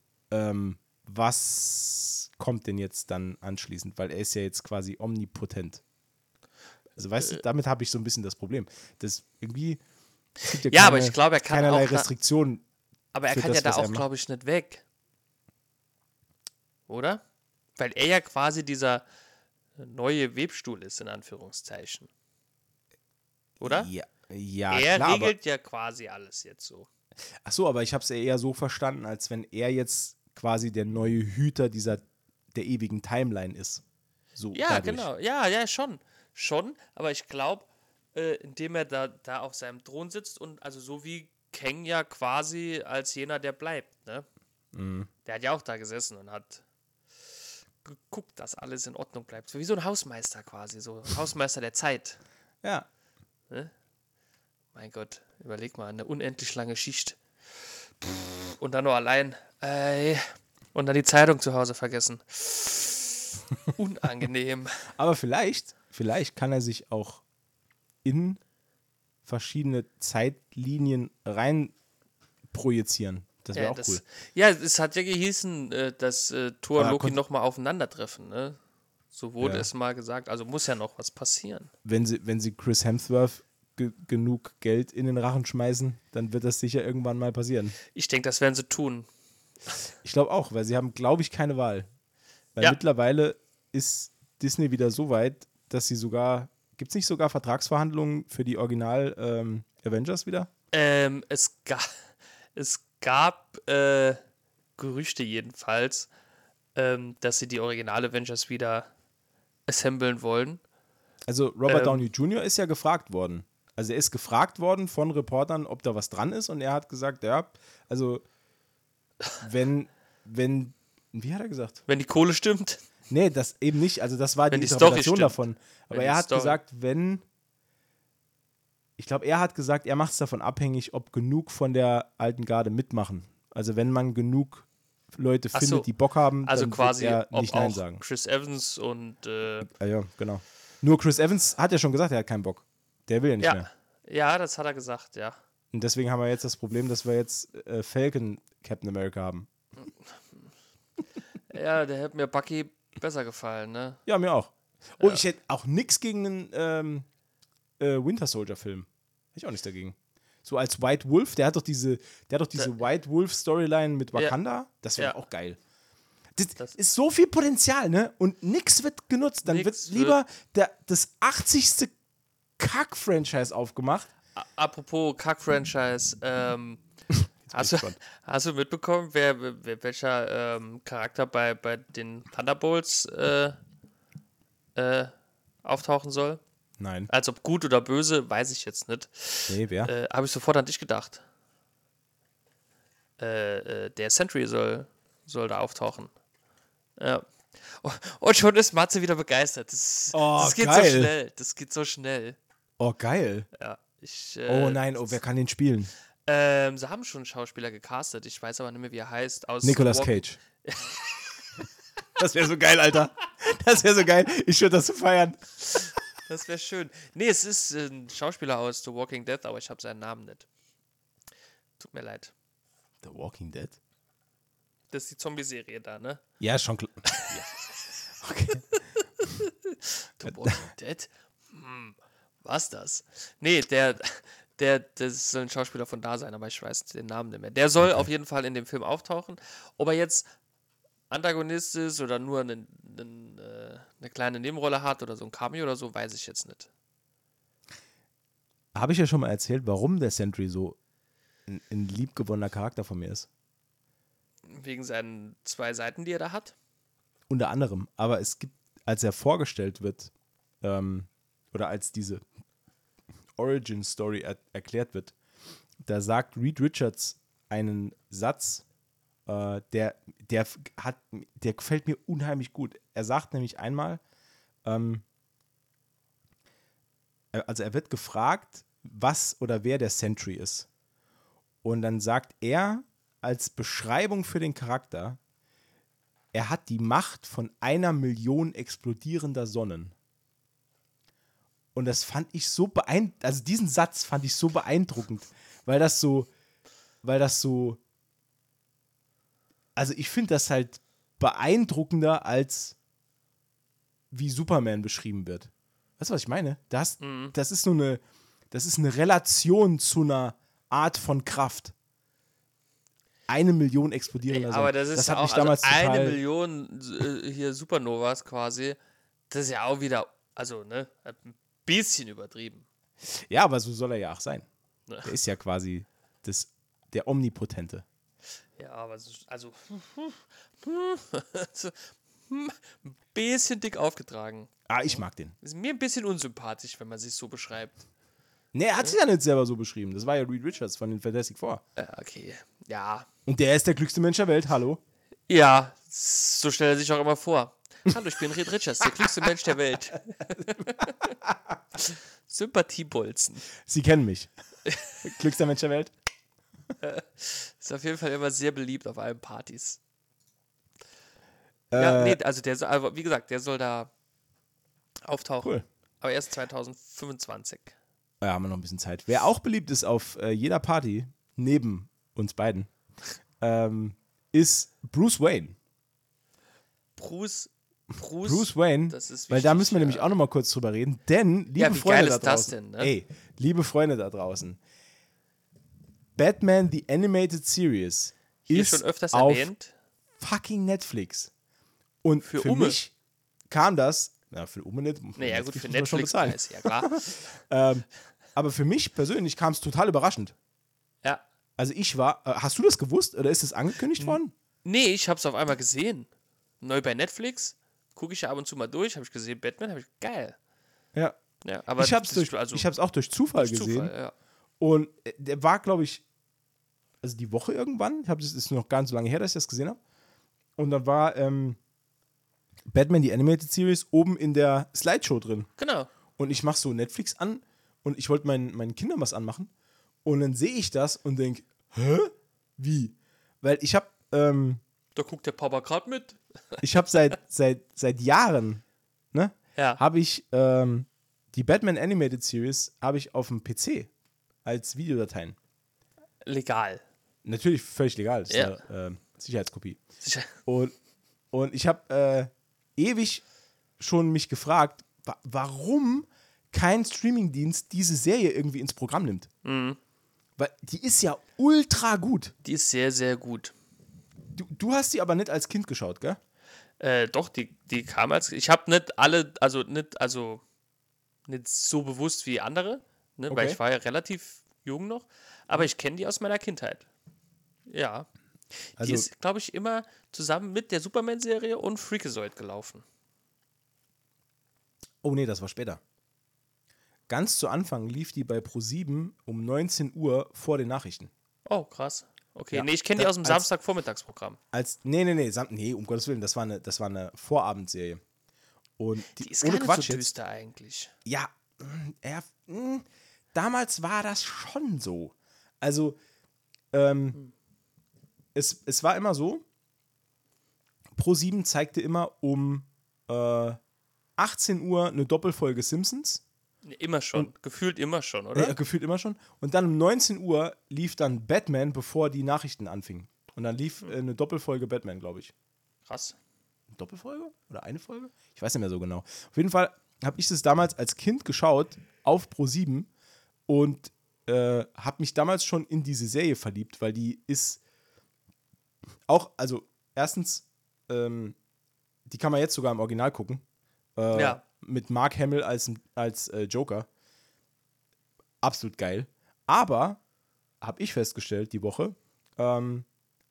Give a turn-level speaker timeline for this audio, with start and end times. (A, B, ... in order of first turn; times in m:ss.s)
0:00.3-0:05.8 A
0:07.0-0:09.8 A
0:10.4-0:12.6 A
0:10.7-0:12.1 B
0:13.1-0:14.8 B
0:13.3-0:14.0 A
0:16.9-0:17.2 B
0:17.8-0:19.0 B
0:19.8-0:22.1 B
0:23.6-0:23.9 B
0:23.6-0:25.3 A
0:24.7-0:26.9 B
0:27.4-0:33.8 A
0:34.4-0:35.1 A
0:34.5-0:44.3 B
0:44.7-0:45.1 A
0:45.3-0:46.6 B
0:47.8-0:52.2 B
0:54.7-0:57.2 B
0:58.0-1:04.8 B
1:05.0-1:07.2 A
1:08.0-1:08.4 A
1:09.3-1:11.7 A
1:12.5-1:14.0 A
1:13.5-1:18.6 B
1:16.8-1:17.2 A
1:19.1-1:21.7 B
1:19.4-1:19.7 A
1:21.8-1:27.8 A
1:27.9-1:29.1 B
1:30.0-1:31.9 A
1:32.6-1:40.5 A
1:40.7-1:44.2 B
1:44.8-1:46.1 B
1:46.8-1:48.9 B
1:49.7-1:50.6 B
1:51.3-1:58.2 A
1:51.7-1:52.0 B
1:59.4-2:01.8 A
2:01.9-2:02.8 B
2:03.1-2:07.2 A
2:04.5-2:05.4 B
2:05.9-2:06.6 B
2:09.0-2:18.0 A
2:15.5-2:15.9 B
2:16.4-2:19.7 B
2:19.7-2:23.7 A
2:23.4-2:25.4 B
2:25.7-2:29.5 A
2:31.5-2:34.0 B
2:34.1-2:37.1 A
2:37.8-2:45.6 A
2:46.4-2:51.9 A
2:49.4-2:50.2 B
2:52.6-2:54.1 A
2:54.4-2:56.8 B
2:57.5-2:58.0 A
2:57.5-3:03.6 B
3:04.8-3:05.1 B
3:05.6-3:06.4 B
3:06.8-3:07.1 A
3:07.1-3:11.2 B
3:09.5-3:09.9 A
3:13.2-3:16.1 B
3:17.0-3:22.4 B
3:20.1-3:21.1 A
3:22.8-3:23.5 A
3:23.6-3:25.2 B
3:24.5-3:25.9 A
3:26.3-3:31.3 B
3:29.6-3:30.4 A
3:32.2-3:35.5 A
3:36.3-3:40.5 B
3:41.8-3:42.3 B
3:43.0-3:43.8 A
3:44.9-3:46.2 B
3:46.4-3:47.5 A
3:47.1-3:47.5 B
3:48.2-3:48.7 A
3:48.7-4:00.3 B
3:50.2-3:50.7 A
4:01.1-4:06.7 B
4:08.8-4:10.8 A
4:11.5-4:13.3 A
4:14.5-4:16.6 B
4:17.3-4:20.1 A
4:20.6-4:22.2 A
4:23.4-4:25.1 A
4:25.8-4:28.6 A
4:29.3-4:34.0 A
4:34.6-4:35.0 A
4:37.3-4:40.7 A
4:41.6-4:45.2 A
4:46.3-4:49.9 A
4:51.8-4:56.3 A
4:57.0-4:57.8 A
4:59.8-5:02.8 A
5:04.1-5:11.7 A
5:07.0-5:07.3 B
5:13.3-5:16.2 A
5:14.3-5:18.8 B
5:19.3-5:22.6 B
5:23.0-5:24.5 A
5:25.0-5:27.8 A
5:28.6-5:37.8 B
5:34.7-5:35.4 A
5:38.5-5:41.6 A
5:41.8-5:43.1 B
5:43.3-5:44.8 A
5:45.3-5:51.2 B
5:50.8-5:51.4 A
5:51.8-5:53.4 B
5:53.7-5:54.3 A
5:55.0-5:55.9 A
5:56.8-5:59.8 B
6:01.7-6:02.2 A
6:01.8-6:03.9 B
6:05.0-6:07.7 B
6:08.2-6:12.7 A
6:13.4-6:15.6 A
6:17.0-6:20.2 B
6:18.2-6:24.6 A
6:21.6-6:22.9 B
6:26.2-6:29.5 A
6:28.5-6:29.7 B
6:30.2-6:31.3 A
6:32.0-6:32.9 A
6:32.2-6:32.8 B
6:33.5-6:40.3 A
6:35.2-6:37.0 B
6:41.6-6:44.3 A
6:44.0-6:46.1 B
6:46.6-6:50.4 B
6:51.4-6:52.7 B
6:51.8-6:53.9 A
6:53.4-6:54.1 B
6:54.6-6:56.0 A
6:57.0-6:59.8 A
7:00.6-7:01.6 A
7:02.7-7:05.5 A
7:05.6-7:05.9 B
7:06.2-7:09.5 A
7:10.0-7:14.6 A
7:15.0-7:16.6 B
7:16.6-7:18.6 A
7:19.1-7:23.9 A
7:24.4-7:25.4 A
7:26.2-7:26.8 B
7:27.2-7:29.8 A
7:28.3-7:28.6 B
7:30.0-7:30.3 B
7:30.4-7:30.7 A
7:31.3-7:33.2 A
7:33.8-7:39.3 A
7:39.4-7:39.8 B
7:40.4-7:42.3 A
7:42.4-7:43.5 B
7:44.4-7:46.2 A
7:46.8-7:50.4 B
7:51.3-7:56.9 B
7:53.3-7:53.6 A
7:57.7-7:58.1 B
7:58.7-8:02.8 B
7:58.8-7:59.1 A
8:05.0-8:05.8 A
8:07.1-8:11.1 A
8:11.5-8:14.4 B
8:12.5-8:13.5 A
8:14.5-8:18.0 A
8:18.8-8:20.1 A
8:19.2-8:20.9 B
8:21.0-8:26.0 A
8:26.7-8:27.2 A
8:28.4-8:29.4 A
8:31.0-8:33.6 A
8:34.2-8:36.2 A
8:36.6-8:38.6 B
8:38.4-8:45.3 A
8:45.9-8:46.2 B
8:46.7-8:52.9 A
8:53.5-8:57.6 A
8:59.1-9:01.4 A
9:02.1-9:03.4 A
9:04.0-9:06.9 A
9:04.1-9:04.4 B
9:08.4-9:10.0 A
9:10.6-9:12.9 A